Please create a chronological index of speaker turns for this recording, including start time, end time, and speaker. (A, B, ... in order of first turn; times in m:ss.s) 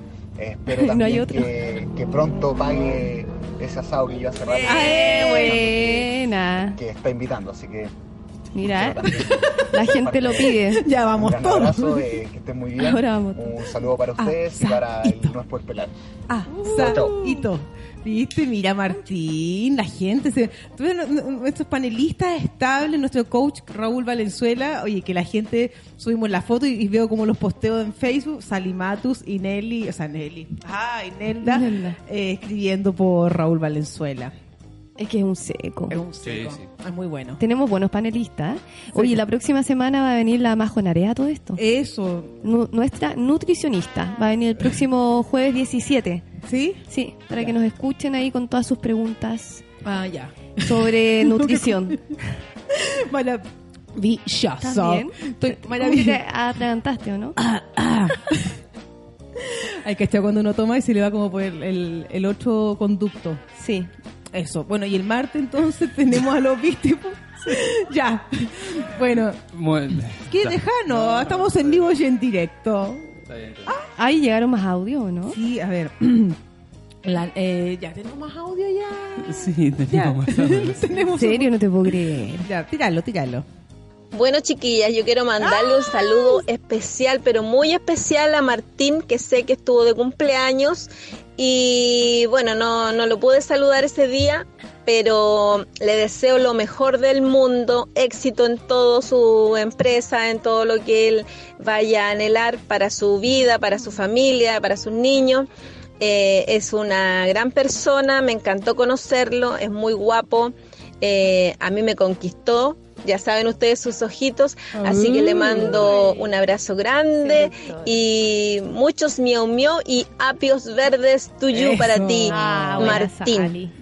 0:00.4-0:06.1 A
0:00.7-0:01.5 B
0:04.6-0:06.8 B
0:04.6-0:05.6 C
0:06.7-0:07.9 A
0:08.5-0:10.8 B
0:08.6-0:10.6 A
0:09.0-0:09.6 C
0:10.5-0:12.0 C
0:11.1-0:15.9 A
0:12.8-0:13.5 B
0:14.2-0:15.3 C
0:16.3-0:34.3 C
0:16.6-0:17.2 B
0:16.6-0:17.2 A
0:31.4-0:32.0 B
0:35.0-0:36.0 B
0:35.9-0:37.4 C
0:36.2-0:36.6 D
0:37.4-0:41.6 B
0:38.9-0:39.2 C
0:41.6-0:42.3 C
0:42.4-0:46.2 B
0:46.4-0:46.8 C
0:46.9-0:49.6 B
0:49.8-0:52.0 C
0:50.6-0:52.0 B
0:52.7-0:53.4 C
0:54.0-0:56.2 C
0:54.6-0:57.4 B
0:57.4-0:58.6 C
0:59.4-1:03.4 C
1:03.5-1:03.9 B
1:04.3-1:09.4 C
1:09.5-1:11.9 D
1:10.3-1:13.9 C
1:13.3-1:13.7 D
1:14.0-1:15.4 B
1:15.3-1:16.4 C
1:17.0-1:23.4 C
1:19.2-1:21.0 D
1:21.1-1:22.5 B
1:24.1-1:45.5 E
1:25.4-1:26.4 C
1:46.0-2:03.6 E
1:54.7-1:56.0 C
1:55.8-1:56.2 B
1:57.2-1:58.0 B
2:01.5-2:03.1 C
2:02.3-2:03.7 B